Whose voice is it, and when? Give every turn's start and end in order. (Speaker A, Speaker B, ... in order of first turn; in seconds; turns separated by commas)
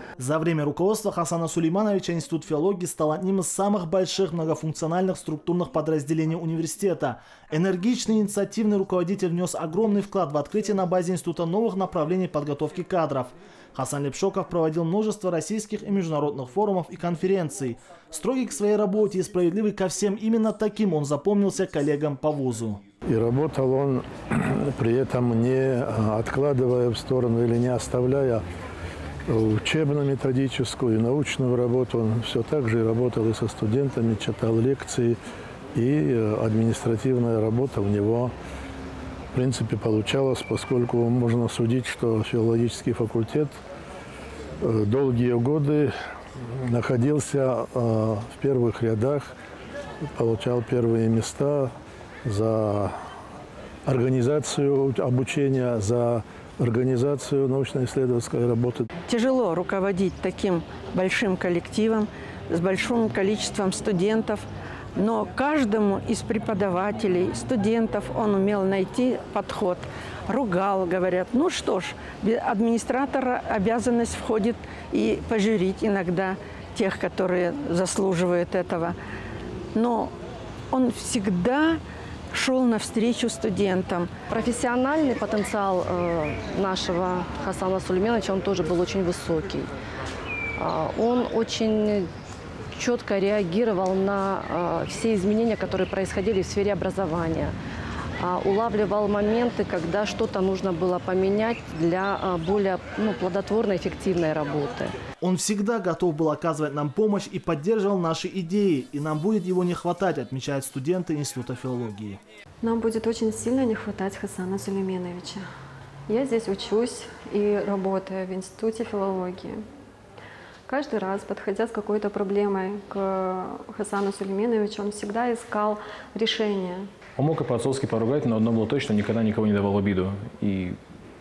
Speaker A: 0.2-22.8, Speaker B: 23.1-28.4, Speaker B: 29.3-35.2, Speaker B: 35.7-38.3, Speaker B: 39.3-43.6, Speaker B: 44.6-46.0, Speaker B: 46.6-49.3, Speaker B: 50.0-51.7, Speaker B: 52.2-53.0, Speaker B: 53.9-58.9, Speaker C: 59.1-79.0, Speaker C: 79.7-80.1, Speaker C: 80.7-81.8, Speaker C: 82.3-84.2, Speaker D: 84.3-89.7, Speaker D: 90.6-92.1, Speaker D: 92.7-97.5, Speaker D: 98.2-104.9, Speaker A: 105.2-112.2, Speaker E: 112.6-115.5, Speaker E: 116.1-119.7, Speaker E: 120.7-126.9, Speaker F: 127.2-130.8